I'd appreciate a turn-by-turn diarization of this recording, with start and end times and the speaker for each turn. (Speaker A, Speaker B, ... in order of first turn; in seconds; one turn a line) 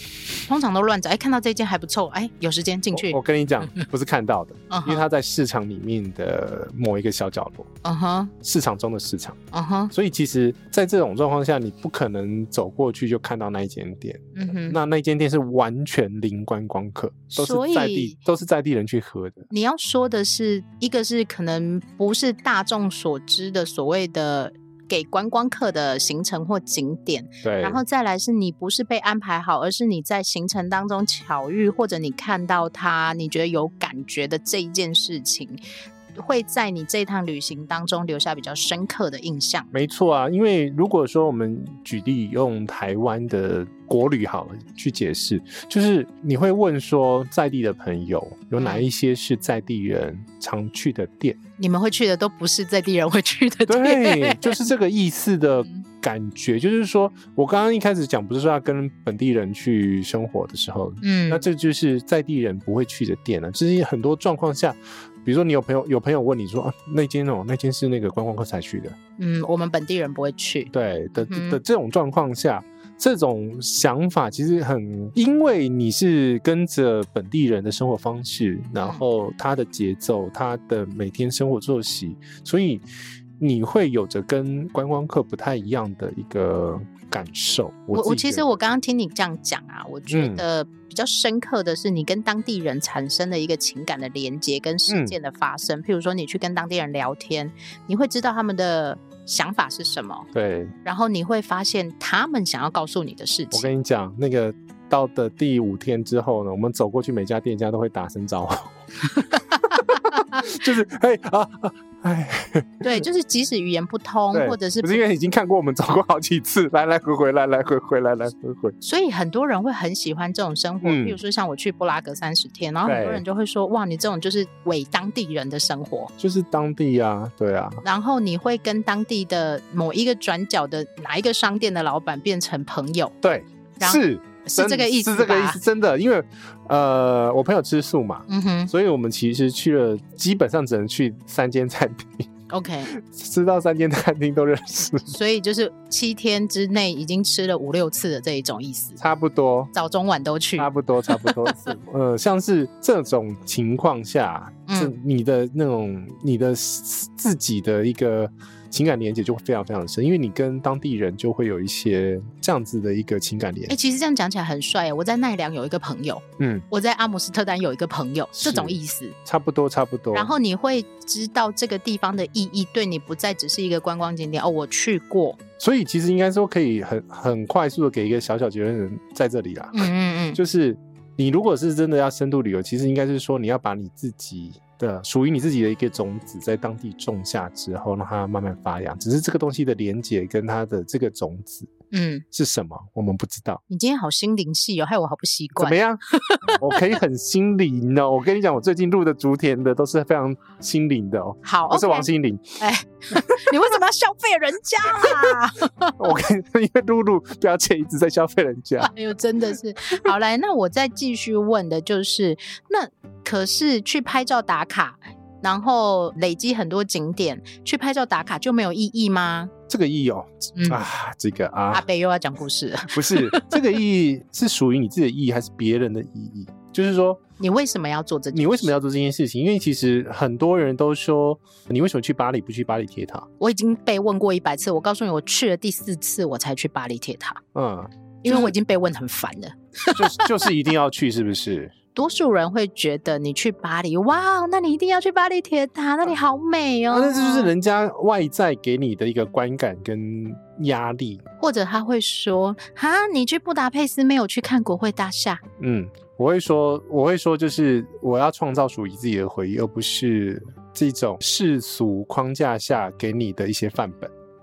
Speaker A: 0.5-3.9
Speaker B: 2.9-7.7
Speaker A: 4.7-5.0
Speaker A: 7.8-8.3
Speaker B: 8.4-9.4
Speaker A: 9.5-9.9
Speaker B: 9.9-19.5
Speaker A: 14.3-14.8
Speaker A: 17.3-18.2
Speaker A: 19.5-35.6
Speaker B: 27.4-27.8
Speaker A: 36.1-39.7
Speaker B: 39.7-51.4
Speaker A: 48.6-48.9
Speaker A: 51.6-54.6
Speaker B: 53.7-69.0
Speaker A: 61.0-61.4
Speaker A: 69.2-71.6
Speaker B: 70.7-82.8
Speaker B: 83.4-88.4
Speaker A: 87.9-100.3
Speaker B: 90.1-90.4
Speaker B: 94.9-95.1
Speaker B: 100.3-100.7
Speaker A: 100.8-103.7
Speaker B: 103.5-113.0
Speaker A: 109.3-110.4
Speaker A: 112.8-115.0
Speaker B: 114.3-118.8
Speaker A: 118.8-126.1
Speaker B: 120.8-121.2
Speaker B: 122.8-123.2
Speaker B: 126.2-127.8
Speaker A: 127.8-133.1
Speaker B: 133.2-142.3
Speaker A: 133.8-135.6
Speaker A: 138.3-138.7
Speaker A: 142.5-142.9
Speaker B: 142.9-145.1
Speaker A: 145.1-149.0
Speaker B: 149.0-149.7
Speaker A: 149.7-151.7
Speaker B: 150.6-163.7
Speaker A: 154.7-154.9
Speaker A: 163.7-169.2
Speaker B: 166.4-166.7
Speaker B: 168.3-170.3
Speaker A: 170.1-175.4
Speaker B: 175.6-191.7
Speaker A: 179.7-180.4
Speaker A: 191.9-192.2
Speaker B: 192.3-193.6
Speaker A: 193.7-196.9
Speaker B: 195.6-196.0
Speaker B: 196.6-202.6
Speaker A: 201.4-206.0
Speaker B: 203.1-203.6
Speaker B: 204.9-205.4
Speaker B: 206.0-208.9
Speaker A: 208.8-219.5
Speaker B: 219.7-221.8
Speaker A: 220.6-220.8
Speaker A: 221.7-223.6
Speaker B: 222.9-227.2
Speaker A: 227.4-228.7
Speaker B: 228.3-233.3
Speaker A: 233.4-237.4
Speaker B: 237.5-238.5
Speaker A: 238.2-240.4
Speaker B: 239.9-241.7
Speaker A: 241.9-247.5
Speaker B: 246.9-251.2
Speaker A: 251.4-255.4
Speaker B: 255.6-264.1